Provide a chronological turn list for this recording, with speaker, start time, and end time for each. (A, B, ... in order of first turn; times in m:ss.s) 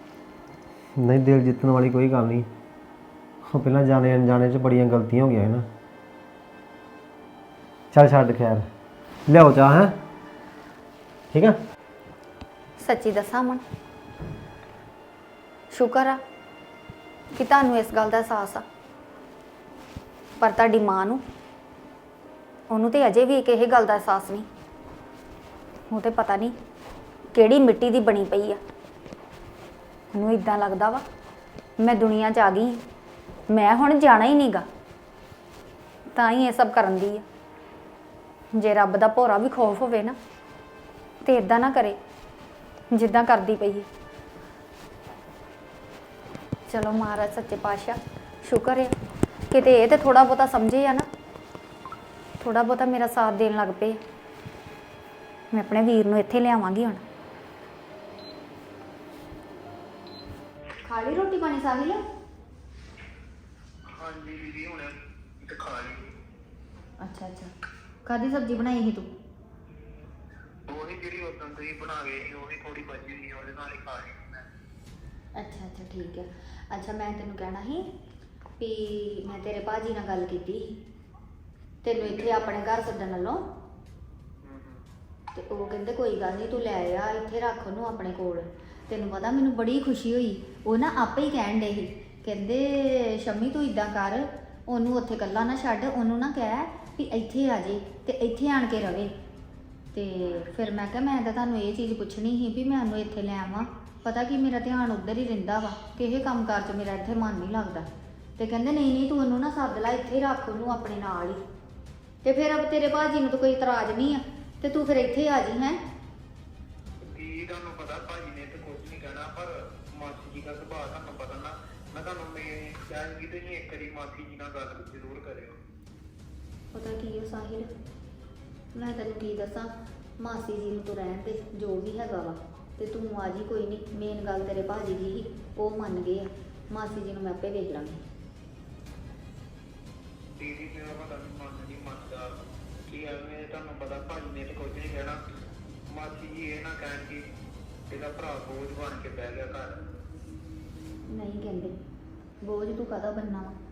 0:01.0-0:02.5 A
0:03.4-0:05.7 A
0:07.9-0:08.7 A
0:09.3-0:09.9 A
0:12.8-0:13.6 B
0:15.7-0:16.2 B
0:17.3-0:18.6 B
0:20.4-0:21.2 B
0:22.7-0:24.5 B
0:25.9-0:26.6 B
0:27.3-0:28.6 B
0:30.1-0:31.0 B
0:31.8-0:32.8 B
0:33.5-0:34.6 B
0:36.1-0:37.2 B
0:38.6-0:40.2 B
0:41.2-0:42.0 B
0:42.9-0:43.9 B
0:46.7-0:48.9 B
0:49.5-0:51.1 B
0:52.4-0:54.0 B
0:55.5-0:57.0 B
1:00.8-1:02.0 B
1:03.9-1:06.1 C
1:07.0-1:07.5 B
1:08.0-1:09.1 B
1:10.7-1:14.4 C
1:15.4-1:17.8 B
1:18.6-1:20.8 B
1:21.8-1:23.4 B
1:22.0-1:22.4 C
1:24.4-1:24.8 C
1:25.3-1:39.1 B
1:39.9-1:51.4 B
1:52.2-1:55.8 B
1:57.0-2:05.6 C
2:06.7-2:07.7 B
2:08.8-2:18.0 B
2:20.4-2:22.3 C
2:22.9-2:25.2 C
2:25.9-2:27.2 C
2:27.9-2:29.8 C
2:31.1-2:31.7 B
2:32.4-2:33.5 B